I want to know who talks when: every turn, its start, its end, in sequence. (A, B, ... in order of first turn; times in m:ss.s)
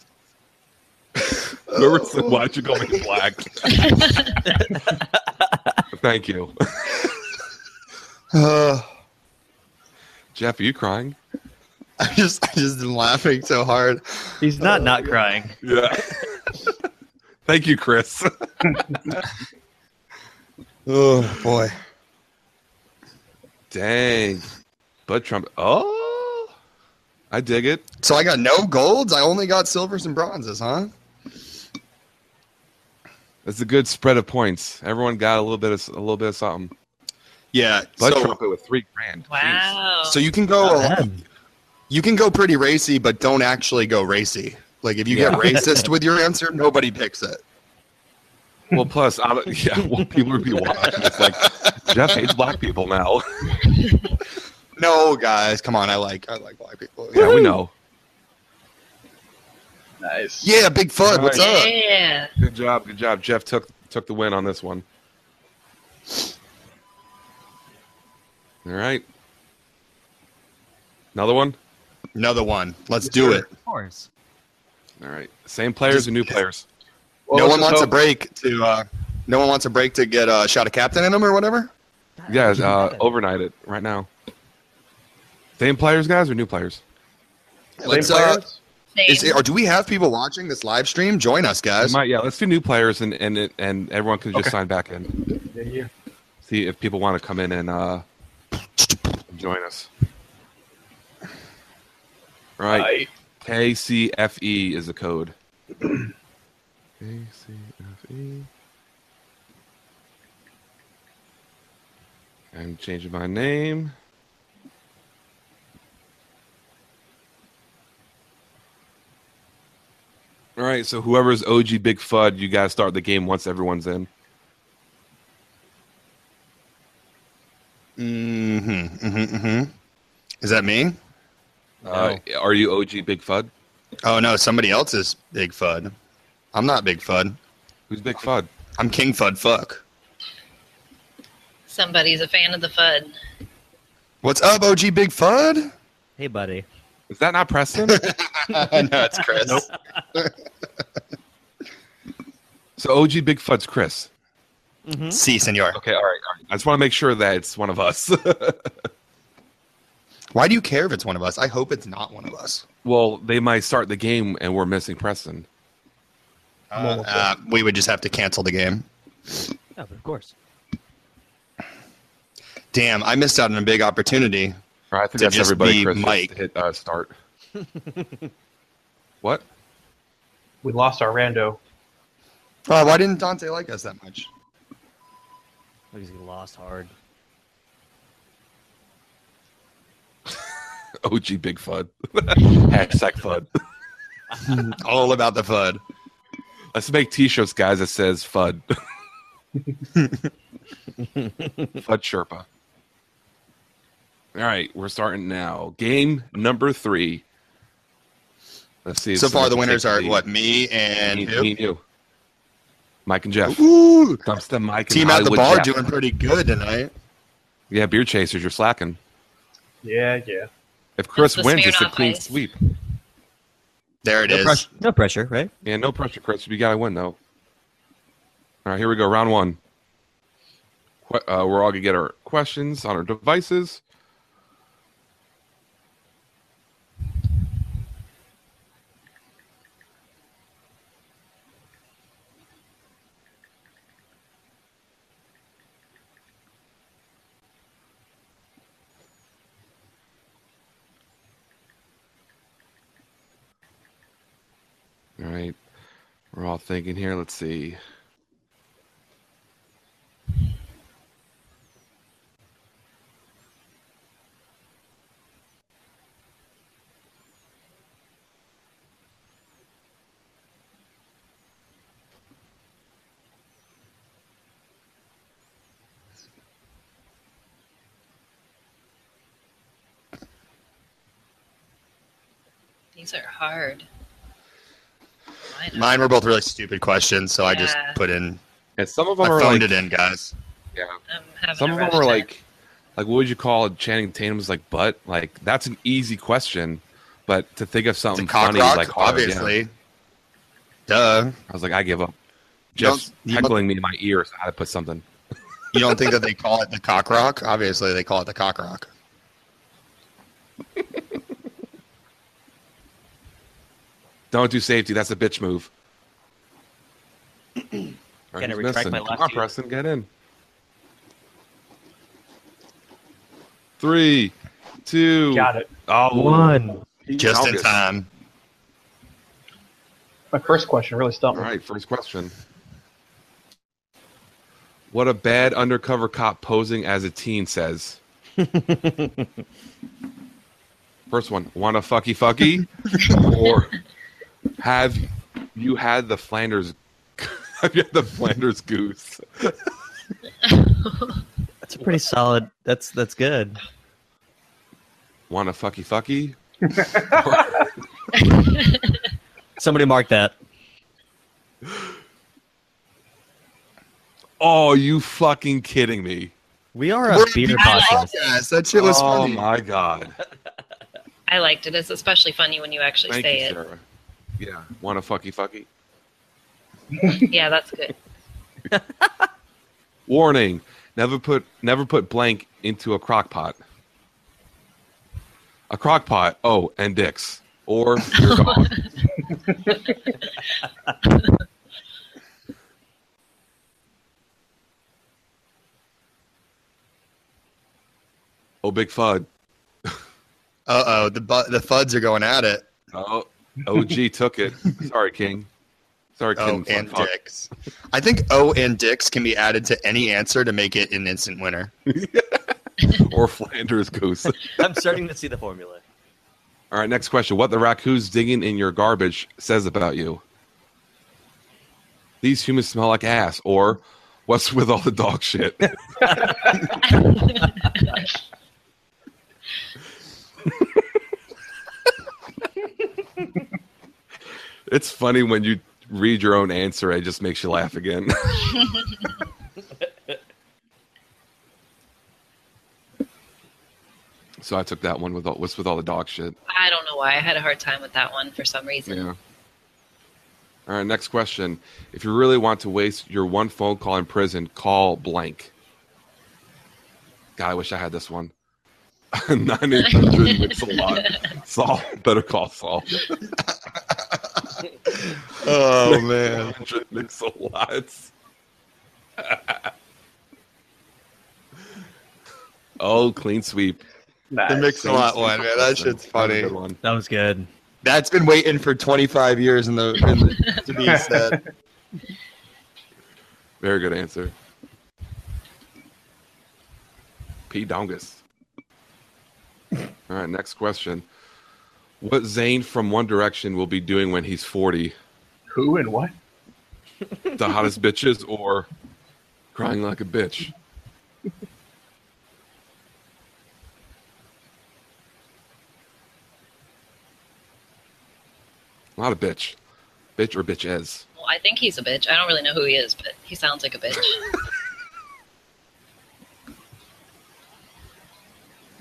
0:01.2-0:03.9 A
0:01.7-0:03.0 B
0:03.7-0:04.4 C
0:04.7-0:05.8 D
0:05.9-0:07.2 A
0:08.3-0:08.9 B
0:10.3-0:11.2 A
0:12.0-0:15.0 B
0:14.4-0:15.6 D
0:15.6-0:16.5 A
0:17.4-0:18.8 A
0:20.8-0:21.7 B
0:23.7-0:24.5 A
0:25.1-0:26.5 A
0:27.3-0:27.8 A
0:28.0-0:30.9 B
0:33.4-0:36.7 A
0:37.5-0:38.4 B
0:38.0-0:39.7 A
0:39.3-0:40.2 C
0:40.0-0:41.0 B
0:40.6-0:41.2 D
0:41.9-0:47.4 B
0:45.1-0:45.6 A
0:45.3-0:45.9 D
0:48.7-0:53.8 A
0:51.0-0:52.0 B
0:54.8-0:57.5 B
0:57.1-0:57.7 A
1:00.0-1:00.5 E
1:00.4-1:01.7 B
1:01.0-1:01.5 A
1:01.3-1:02.3 C
1:02.4-1:04.8 A
1:08.6-1:09.0 A
1:11.1-1:11.6 A
1:12.2-1:13.5 B
1:13.0-1:13.4 E
1:13.6-1:14.1 D
1:15.0-1:16.6 A
1:15.9-1:16.4 B
1:17.3-1:17.9 E
1:17.3-1:21.7 B
1:22.2-1:23.1 D
1:22.3-1:24.1 A
1:25.6-1:26.8 A
1:27.8-1:28.4 B
1:27.8-1:28.6 E
1:28.9-1:29.4 C
1:29.1-1:32.0 B
1:31.8-1:35.1 A
1:35.4-1:35.9 E
1:36.4-1:38.0 A
1:39.3-1:39.9 A
1:42.6-1:45.3 A
1:42.7-1:43.1 E
1:47.0-1:48.5 A
1:52.5-1:53.9 A
2:00.6-2:04.1 A
2:08.0-2:09.7 B
2:10.4-2:11.0 B
2:11.8-2:12.2 D
2:11.8-2:13.5 A
2:14.0-2:15.9 B
2:16.5-2:17.4 B
2:17.9-2:18.5 A
2:18.8-2:19.8 B
2:21.7-2:23.1 C
2:24.2-2:25.7 B
2:26.2-2:26.6 D
2:27.1-2:28.1 A
2:27.9-2:30.3 B
2:32.8-2:34.1 A
2:34.8-2:35.2 D
2:35.1-2:35.8 B
2:35.7-2:38.7 A
2:40.3-2:42.6 B
2:42.8-2:45.4 A
2:46.7-2:48.8 B
2:46.8-2:47.3 E
2:49.8-2:50.3 D
2:52.7-2:54.6 B
2:54.9-2:57.1 A
2:55.2-2:56.3 B
2:57.8-2:58.3 D
3:00.6-3:01.6 E
3:02.7-3:04.3 B
3:05.9-3:06.9 D
3:11.0-3:13.5 A
3:14.4-3:15.8 B
3:16.7-3:18.6 A
3:19.9-3:20.3 B
3:21.8-3:22.4 A
3:24.3-3:27.2 A
3:28.8-3:30.2 A
3:29.2-3:31.5 B
3:31.0-3:31.8 A
3:33.0-3:33.6 A
3:33.4-3:34.2 B
3:34.2-3:35.7 A
3:34.9-3:36.9 B
3:37.7-3:39.0 A
3:39.8-3:40.5 E
3:41.0-3:42.6 A
3:41.2-3:42.4 C
3:44.0-3:44.6 B
3:44.3-3:45.5 D
3:45.6-3:47.2 A
3:48.6-3:49.6 A
3:51.0-3:53.8 A
4:15.2-4:15.6 A
4:16.3-4:17.8 A
4:43.0-4:43.8 C
4:45.4-4:45.9 C
4:45.7-4:48.4 B
4:47.4-4:48.0 C
4:48.8-4:49.7 A
4:49.2-4:50.3 B
4:51.1-4:52.3 C
4:51.6-4:52.4 A
4:53.0-4:59.6 A
4:58.1-4:59.7 B
5:00.9-5:01.4 B
5:01.5-5:02.1 A
5:02.7-5:05.0 A
5:02.8-5:03.6 B
5:05.7-5:08.9 B
5:14.3-5:15.7 A
5:18.3-5:20.1 A
5:18.4-5:19.5 D
5:23.8-5:24.3 A
5:24.8-5:26.5 A
5:25.3-5:25.7 E
5:26.1-5:26.8 D
5:27.1-5:27.8 A
5:27.1-5:28.1 B
5:30.3-5:31.5 E
5:31.3-5:32.3 A
5:34.9-5:38.0 A
5:38.4-5:39.2 D
5:41.1-5:43.8 A
5:44.6-5:49.6 A
5:50.4-5:51.2 C
5:51.7-5:53.6 D
5:55.3-5:56.4 A
5:57.0-5:57.7 A
5:58.2-5:59.0 C
5:59.6-6:00.3 D
6:04.4-6:06.3 A
6:06.7-6:08.1 D
6:07.1-6:09.5 B
6:07.5-6:08.3 C
6:08.7-6:10.2 A
6:11.3-6:13.6 C
6:13.1-6:13.8 A
6:14.4-6:15.7 A
6:17.0-6:17.2 E
6:17.3-6:17.9 C
6:18.7-6:19.2 D
6:20.1-6:23.6 A
6:25.7-6:28.8 A
6:28.1-6:28.9 C
6:29.9-6:30.3 C
6:31.0-6:31.4 C
6:38.6-6:39.3 A
6:40.7-6:42.7 B
6:42.9-6:45.5 A
6:46.2-6:47.1 A
6:46.4-6:51.7 B
6:51.9-6:54.5 A
6:54.4-6:55.8 D
6:56.7-7:00.2 A
7:02.2-7:06.3 A
7:06.8-7:08.0 C
7:14.7-7:18.7 A
7:24.4-7:26.3 A
7:26.5-7:29.1 C
7:28.9-7:29.2 A
7:30.7-7:35.5 A
7:37.4-7:38.3 A
7:39.1-7:43.1 A
7:40.0-7:41.2 C
7:43.9-7:46.6 B
7:45.8-7:48.1 A
7:49.2-7:49.7 A
7:52.8-7:53.8 A
7:54.3-7:55.1 E
7:54.5-7:56.5 B
7:54.9-7:56.8 A
7:56.8-7:57.5 D
7:57.8-8:01.4 B
8:00.8-8:01.4 E
8:03.6-8:04.3 A
8:07.5-8:08.2 A
8:10.1-8:11.0 A
8:12.0-8:14.9 A
8:15.5-8:16.1 E
8:17.3-8:18.7 A
8:19.5-8:20.5 A
8:29.0-8:29.6 A
8:30.2-8:31.0 A
8:31.2-8:34.2 C